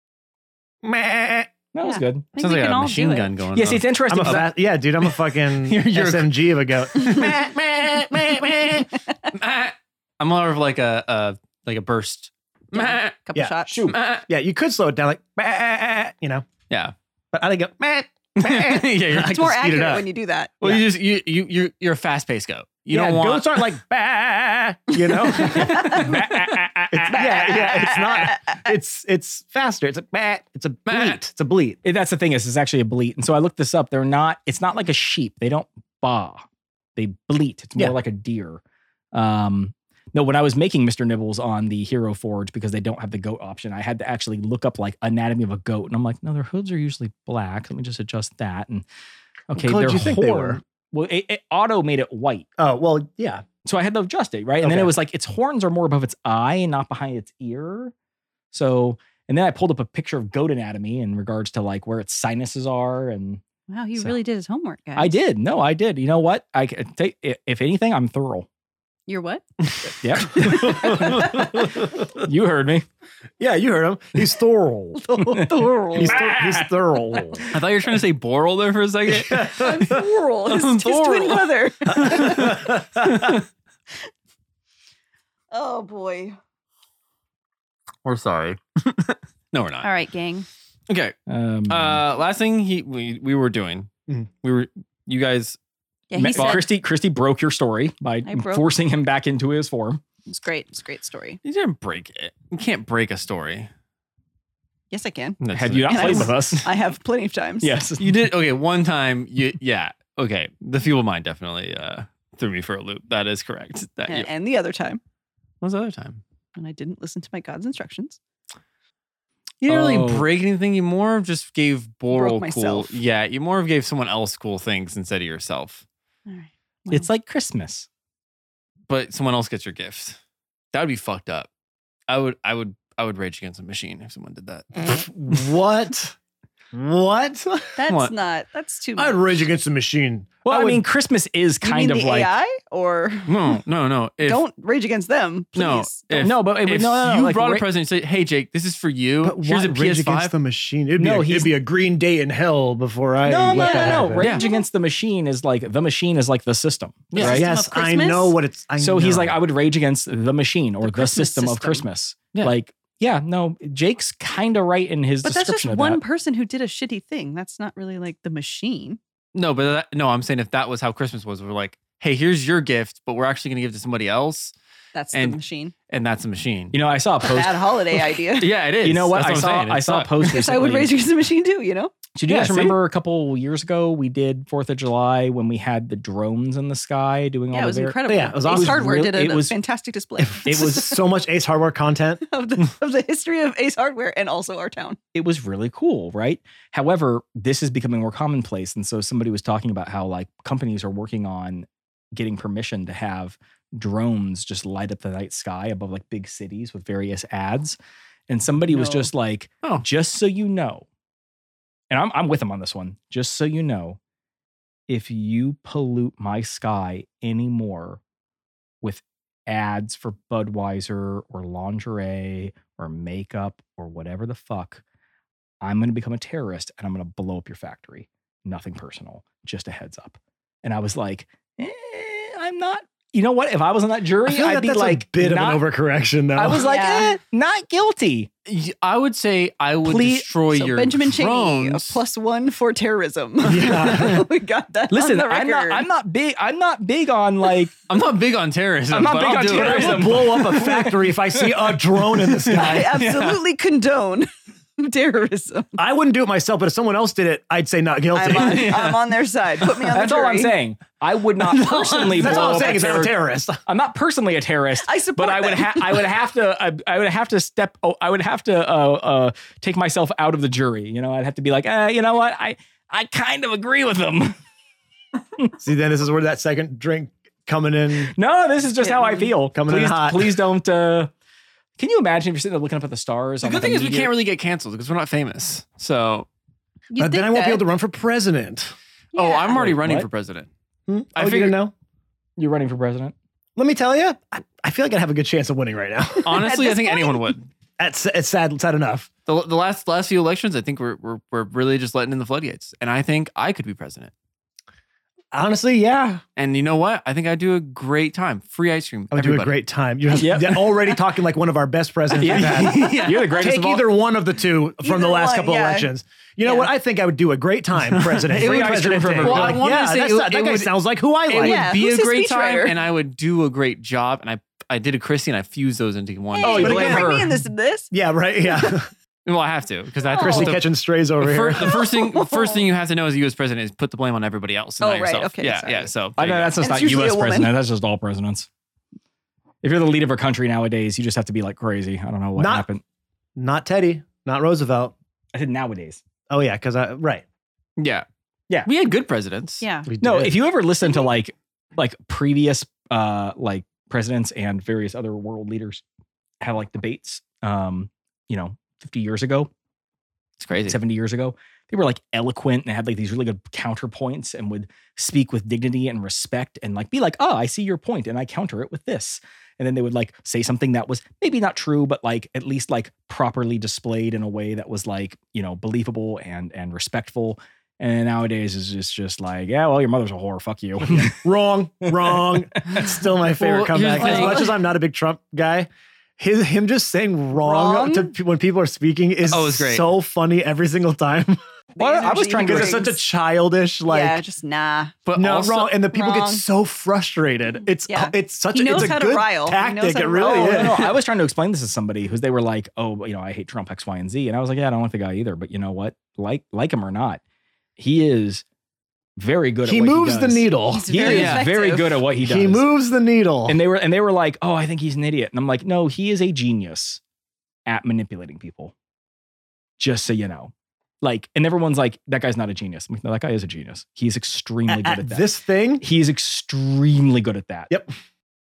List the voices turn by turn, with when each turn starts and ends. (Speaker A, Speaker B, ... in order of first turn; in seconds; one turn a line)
Speaker A: 0.8-1.5
Speaker B: 1.7-2.3
Speaker C: 1.8-3.3
Speaker D: 2.4-4.5
Speaker B: 3.5-4.5
Speaker A: 4.1-8.9
Speaker D: 5.0-7.6
Speaker D: 8.1-8.8
Speaker D: 9.3-13.2
Speaker C: 12.7-13.9
Speaker A: 13.3-16.5
Speaker B: 13.7-14.0
Speaker D: 13.8-14.3
Speaker A: 17.3-20.1
Speaker D: 18.4-19.5
Speaker C: 19.2-20.5
Speaker D: 20.6-23.7
Speaker A: 22.9-26.1
Speaker C: 25.1-26.1
Speaker B: 25.3-28.4
Speaker D: 25.4-25.7
Speaker D: 26.4-26.7
Speaker A: 26.9-31.8
Speaker C: 27.2-28.3
Speaker D: 30.9-31.3
Speaker B: 31.8-36.5
Speaker B: 37.0-38.6
Speaker B: 39.1-48.9
Speaker B: 49.5-52.5
Speaker A: 49.5-50.6
Speaker A: 52.6-53.5
Speaker B: 53.6-57.9
Speaker A: 54.6-54.9
Speaker B: 58.5-63.4
Speaker C: 63.7-65.2
Speaker B: 65.0-68.5
Speaker C: 69.1-69.5
Speaker B: 70.0-72.8
Speaker A: 70.2-72.1
Speaker C: 70.6-71.0
Speaker A: 73.4-77.5
Speaker C: 75.0-76.2
Speaker B: 76.0-77.2
Speaker D: 77.4-83.4
Speaker A: 79.1-80.0
Speaker C: 79.5-82.7
Speaker A: 81.9-83.3
Speaker C: 85.5-86.4
Speaker D: 88.0-89.9
Speaker C: 89.8-90.5
Speaker D: 90.9-91.2
Speaker B: 91.3-92.0
Speaker D: 91.7-95.6
Speaker C: 96.1-96.7
Speaker B: 96.2-100.0
Speaker D: 96.3-96.6
Speaker C: 98.2-98.7
Speaker C: 100.3-101.4
Speaker D: 101.4-103.7
Speaker C: 104.9-107.7
Speaker D: 105.4-106.7
Speaker B: 105.5-106.7
Speaker B: 107.6-108.3
Speaker D: 108.0-114.3
Speaker C: 114.1-115.0
Speaker D: 115.6-116.2
Speaker C: 116.6-118.2
Speaker D: 119.6-125.8
Speaker B: 119.7-120.3
Speaker C: 122.1-123.0
Speaker C: 126.3-127.1
Speaker B: 126.9-127.9
Speaker D: 128.9-130.2
Speaker D: 130.7-131.5
Speaker D: 132.1-134.9
Speaker A: 134.8-136.2
Speaker A: 136.7-137.7
Speaker C: 137.8-139.4
Speaker D: 137.9-138.1
Speaker A: 139.0-140.8
Speaker B: 140.5-142.3
Speaker C: 141.6-143.6
Speaker D: 143.3-144.4
Speaker C: 144.2-146.3
Speaker D: 145.6-150.3
Speaker B: 146.2-147.7
Speaker A: 149.2-154.3
Speaker B: 151.0-151.6
Speaker B: 153.2-157.4
Speaker C: 153.4-154.7
Speaker D: 154.2-154.4
Speaker D: 157.1-157.4
Speaker C: 157.2-158.4
Speaker A: 157.2-159.4
Speaker B: 158.8-166.0
Speaker C: 160.8-161.9
Speaker C: 165.2-169.0
Speaker D: 169.3-174.5
Speaker C: 174.9-175.7
Speaker D: 175.1-176.8
Speaker B: 176.7-177.8
Speaker C: 177.3-178.5
Speaker D: 178.4-180.1
Speaker B: 178.8-180.9
Speaker C: 180.2-182.8
Speaker B: 182.2-189.6
Speaker C: 187.5-191.0
Speaker A: 188.1-189.0
Speaker A: 190.2-192.2
Speaker B: 190.5-191.0
Speaker C: 192.2-195.0
Speaker B: 195.1-207.8
Speaker B: 208.3-210.9
Speaker C: 208.8-209.1
Speaker B: 211.9-214.0
Speaker B: 214.9-218.0
Speaker B: 218.8-224.8
Speaker B: 225.6-235.6
Speaker A: 234.3-236.7
Speaker B: 236.3-238.3
Speaker C: 236.6-237.2
Speaker D: 238.5-242.0
Speaker B: 239.8-240.3
Speaker C: 240.5-245.9
Speaker A: 243.4-244.3
Speaker B: 244.9-247.7
Speaker D: 247.9-250.4
Speaker B: 248.9-253.4
Speaker A: 249.5-252.9
Speaker C: 252.5-255.8
Speaker A: 255.8-258.8
Speaker C: 258.1-260.6
Speaker D: 258.4-259.0
Speaker B: 259.8-274.4
Speaker A: 261.9-263.6
Speaker C: 262.2-262.7
Speaker C: 264.8-266.1
Speaker A: 275.6-278.1
Speaker B: 278.0-281.1
Speaker C: 278.8-279.3
Speaker A: 279.4-280.4
Speaker B: 281.8-284.1
Speaker D: 283.4-286.3
Speaker C: 286.9-287.6
Speaker A: 287.0-288.8
Speaker C: 289.1-289.6
Speaker D: 289.1-290.5
Speaker B: 289.5-290.1
Speaker A: 290.9-291.7
Speaker D: 291.1-291.6
Speaker B: 292.4-293.1
Speaker A: 293.6-296.5
Speaker D: 296.2-297.5
Speaker C: 296.2-297.3
Speaker A: 297.8-299.1
Speaker D: 299.3-304.1
Speaker A: 305.3-306.2
Speaker D: 306.4-309.6
Speaker A: 309.1-321.7
Speaker B: 310.1-310.8
Speaker D: 312.2-313.4
Speaker B: 312.2-313.9
Speaker C: 314.8-315.9
Speaker C: 316.4-316.7
Speaker D: 317.9-320.7
Speaker B: 318.3-319.7
Speaker D: 321.3-327.0
Speaker C: 321.3-322.8
Speaker C: 326.3-327.9
Speaker B: 326.4-327.4
Speaker A: 326.6-327.2
Speaker A: 327.9-328.9
Speaker D: 329.2-336.6
Speaker C: 330.0-330.5
Speaker A: 330.2-331.8
Speaker C: 331.6-332.6
Speaker C: 334.8-335.9
Speaker B: 336.2-338.5
Speaker C: 336.6-337.6
Speaker B: 339.6-342.8
Speaker A: 342.4-342.7
Speaker A: 343.4-344.9
Speaker B: 345.3-346.0
Speaker A: 346.3-347.2
Speaker D: 347.8-348.1
Speaker D: 348.6-349.7
Speaker C: 349.6-349.9
Speaker A: 349.9-350.4
Speaker B: 350.0-355.8
Speaker B: 356.4-359.5
Speaker D: 360.4-360.8
Speaker B: 360.7-381.2
Speaker A: 380.8-391.4
Speaker B: 382.1-382.9
Speaker D: 383.3-384.5
Speaker C: 384.0-384.5
Speaker C: 387.4-388.1
Speaker D: 389.3-389.9
Speaker C: 391.8-393.0
Speaker B: 391.8-392.9
Speaker A: 392.3-394.2
Speaker C: 393.9-395.0
Speaker D: 395.1-395.8
Speaker A: 395.2-400.9
Speaker C: 395.9-396.4
Speaker C: 397.9-400.7
Speaker B: 400.2-407.2
Speaker B: 407.8-408.4
Speaker B: 409.2-412.7
Speaker A: 409.6-411.4
Speaker C: 410.7-412.0
Speaker D: 411.1-411.4
Speaker A: 412.2-413.6
Speaker B: 413.5-417.0
Speaker B: 417.7-418.7
Speaker B: 419.8-425.3
Speaker A: 424.7-425.8
Speaker B: 425.8-427.7